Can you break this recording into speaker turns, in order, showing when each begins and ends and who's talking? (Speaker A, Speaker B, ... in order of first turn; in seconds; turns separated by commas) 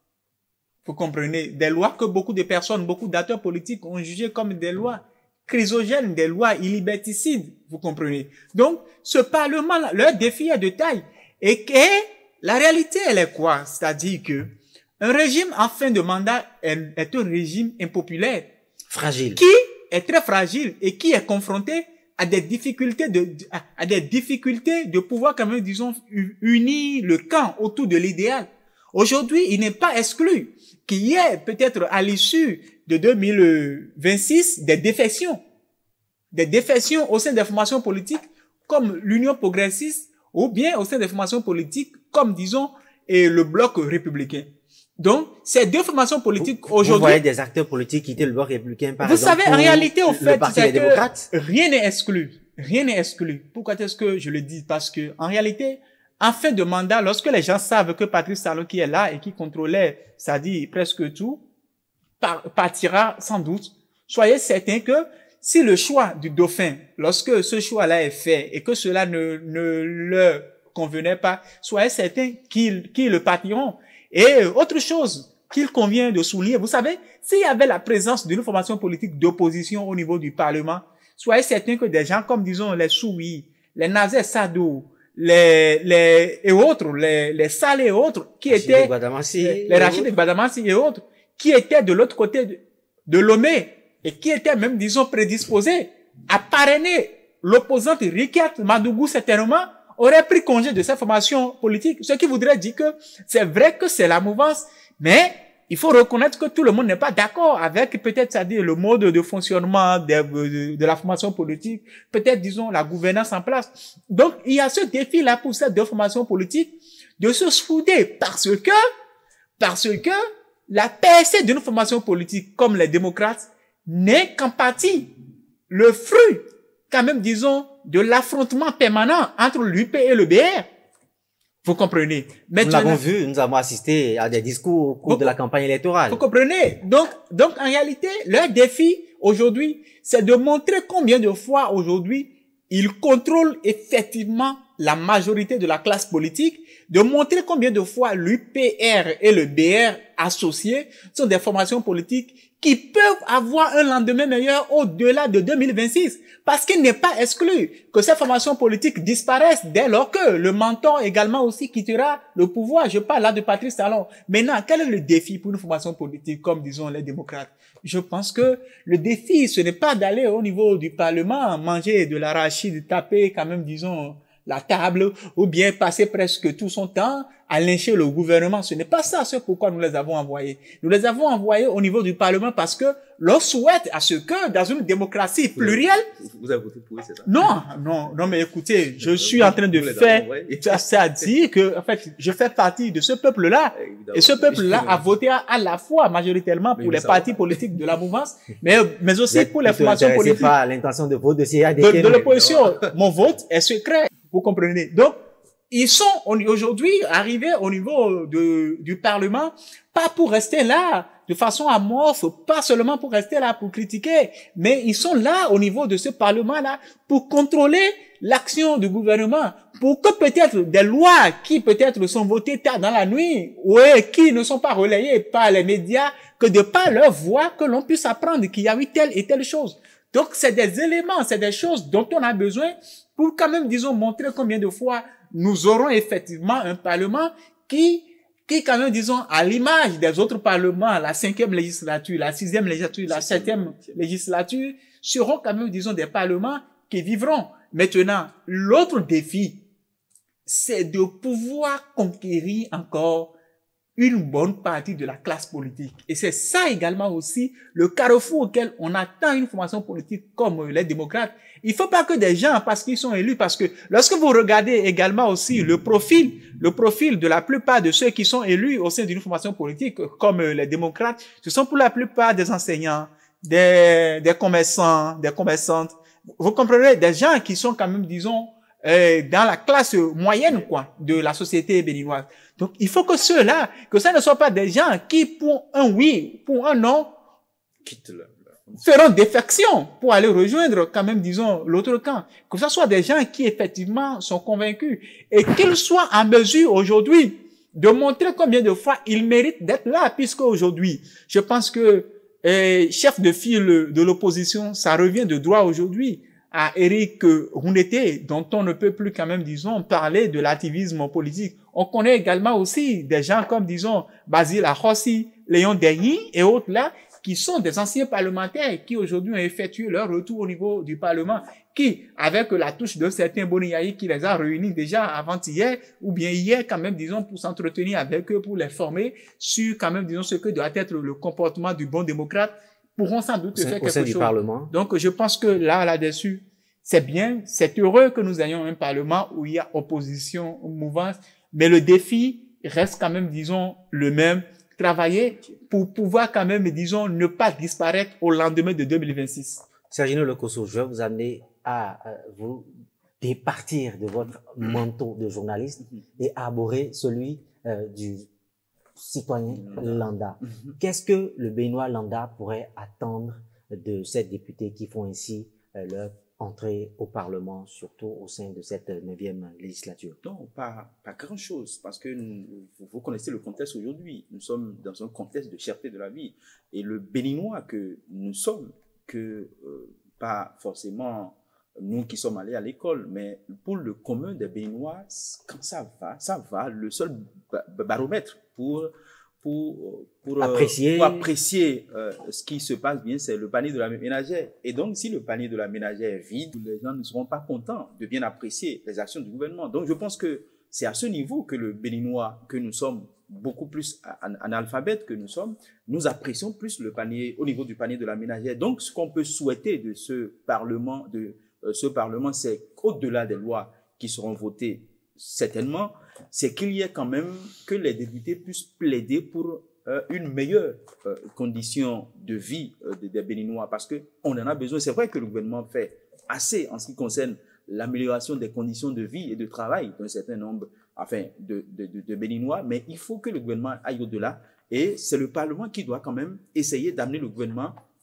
Speaker A: 0.8-18.5, Speaker B: 18.9-19.4, Speaker A: 19.4-35.4, Speaker A: 36.3-47.2, Speaker B: 46.4-51.3, Speaker A: 49.0-61.4, Speaker A: 62.2-118.8, Speaker B: 88.5-90.1, Speaker A: 119.6-125.1, Speaker A: 125.7-130.7, Speaker A: 131.6-133.0, Speaker B: 132.6-136.2, Speaker A: 135.1-135.3, Speaker A: 136.1-186.1, Speaker C: 185.6-187.3, Speaker A: 187.3-200.5, Speaker C: 189.0-191.3, Speaker C: 193.8-195.1, Speaker C: 196.8-197.6, Speaker B: 199.3-202.2, Speaker A: 201.8-205.2, Speaker C: 202.0-202.9, Speaker A: 205.7-249.6, Speaker C: 242.9-244.0, Speaker A: 250.5-253.3, Speaker A: 254.0-287.1, Speaker C: 287.8-288.8, Speaker A: 288.8-349.6, Speaker B: 333.6-334.7, Speaker B: 349.9-352.7, Speaker B: 353.2-358.3, Speaker B: 359.0-370.2, Speaker C: 359.5-360.8, Speaker C: 370.2-388.9, Speaker C: 389.4-437.8, Speaker B: 390.4-391.3